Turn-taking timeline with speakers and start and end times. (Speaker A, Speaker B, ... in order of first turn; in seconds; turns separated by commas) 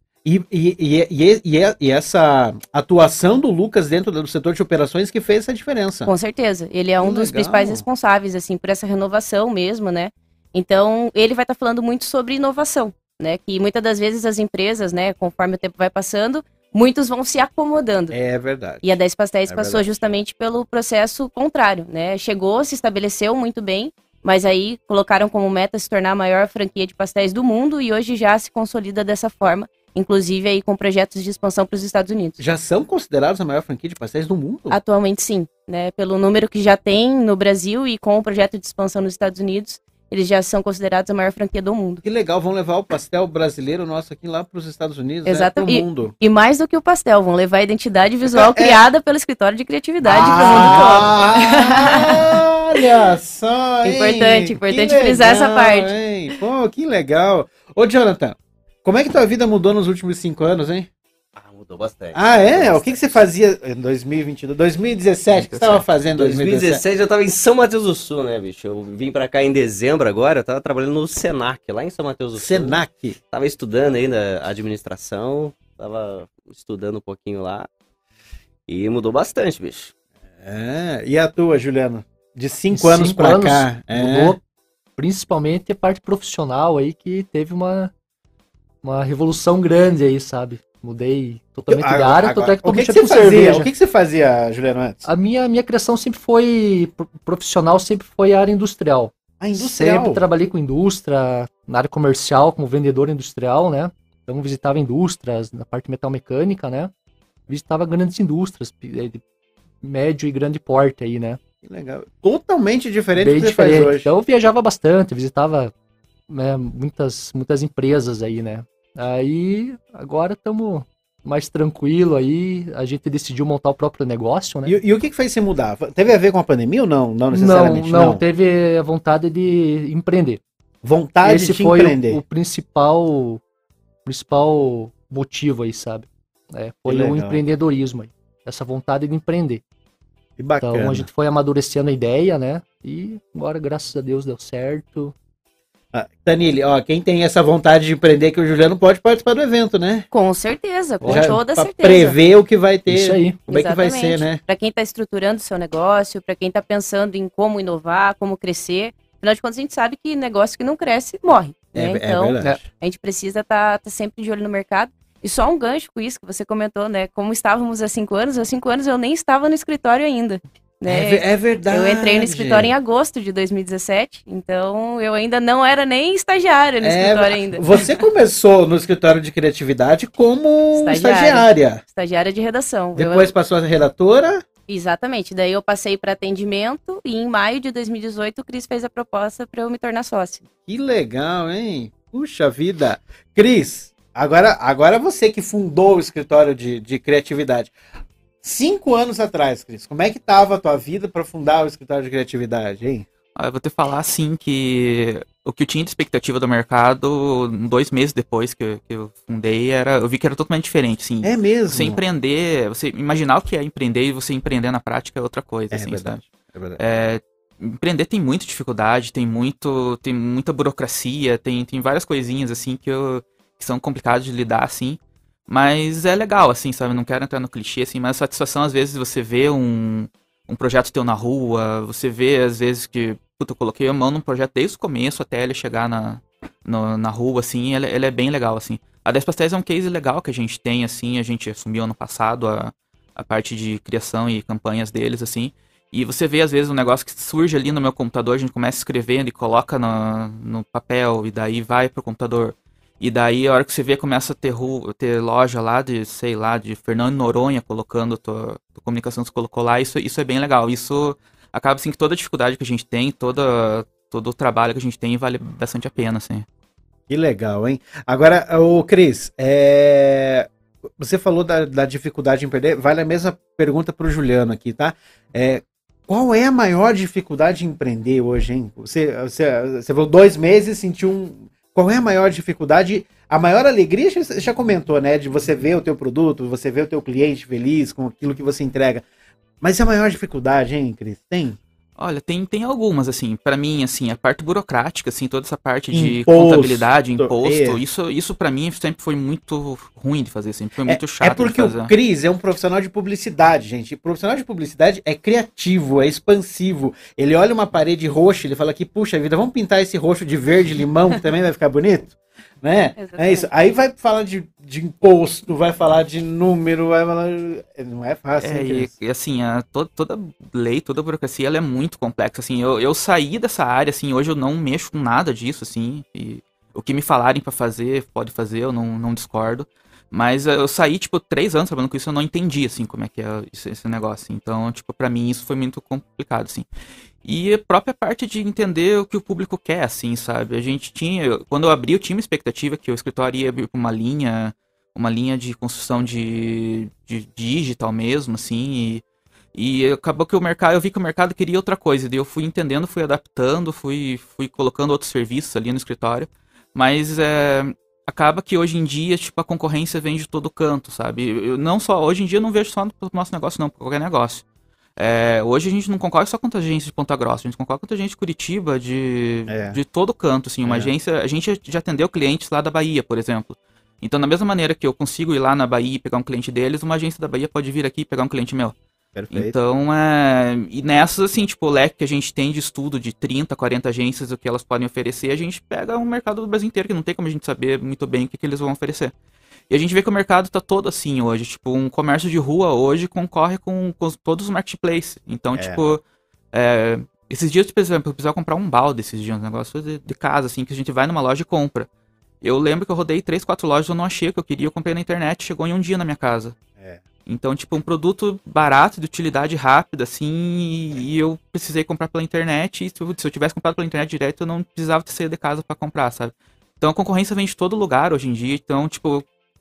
Speaker A: 0.2-6.1, Speaker B: 6.0-18.1, Speaker A: 7.0-7.8, Speaker A: 18.1-19.0, Speaker B: 18.8-32.4, Speaker A: 19.5-19.8, Speaker A: 32.4-34.8, Speaker B: 34.7-42.0, Speaker A: 42.0-46.1, Speaker B: 45.2-52.3, Speaker A: 48.3-48.8, Speaker A: 50.0-60.9, Speaker B: 53.8-55.9, Speaker C: 61.4-63.2, Speaker A: 62.1-66.8, Speaker D: 65.3-65.8, Speaker C: 66.1-77.7, Speaker A: 72.4-73.2, Speaker C: 78.7-79.9, Speaker A: 80.4-84.3, Speaker E: 82.7-84.4, Speaker E: 85.0-87.9, Speaker E: 88.8-93.7, Speaker A: 91.7-95.1, Speaker E: 95.0-106.9, Speaker A: 99.4-100.2, Speaker E: 107.5-109.2, Speaker E: 109.8-111.4, Speaker A: 111.6-114.1, Speaker E: 113.2-115.7, Speaker E: 116.3-124.8, Speaker A: 124.7-128.2, Speaker E: 127.3-130.4, Speaker A: 130.8-132.2, Speaker E: 131.2-133.4, Speaker E: 134.0-139.6, Speaker A: 136.9-137.4, Speaker A: 140.4-141.1, Speaker E: 140.6-145.1, Speaker A: 145.9-150.1, Speaker B: 150.1-152.2, Speaker E: 151.0-151.4, Speaker A: 151.0-154.4, Speaker E: 152.9-153.4, Speaker B: 153.5-177.9, Speaker A: 161.7-162.7, Speaker A: 170.9-172.7, Speaker A: 176.8-181.8, Speaker B: 180.7-183.3, Speaker A: 182.9-184.4, Speaker B: 184.7-190.4, Speaker A: 190.6-197.7, Speaker A: 198.4-203.1, Speaker D: 203.3-216.2, Speaker A: 211.2-212.0, Speaker A: 215.7-216.8, Speaker D: 216.8-266.4, Speaker A: 267.1-270.5, Speaker A: 271.0-289.0, Speaker A: 289.6-291.6, Speaker D: 292.0-301.9, Speaker A: 295.9-297.8, Speaker A: 300.9-318.9, Speaker B: 312.9-313.5, Speaker D: 318.4-336.7, Speaker D: 337.2-349.0, Speaker D: 349.5-364.4, Speaker D: 365.0-378.7, Speaker A: 369.5-369.8, Speaker A: 370.6-370.9, Speaker A: 379.1-379.6, Speaker D: 379.3-389.1, Speaker D: 389.7-396.0, Speaker A: 395.6-395.9, Speaker D: 396.5-401.9, Speaker D: 402.4-406.5, Speaker D: 407.2-419.2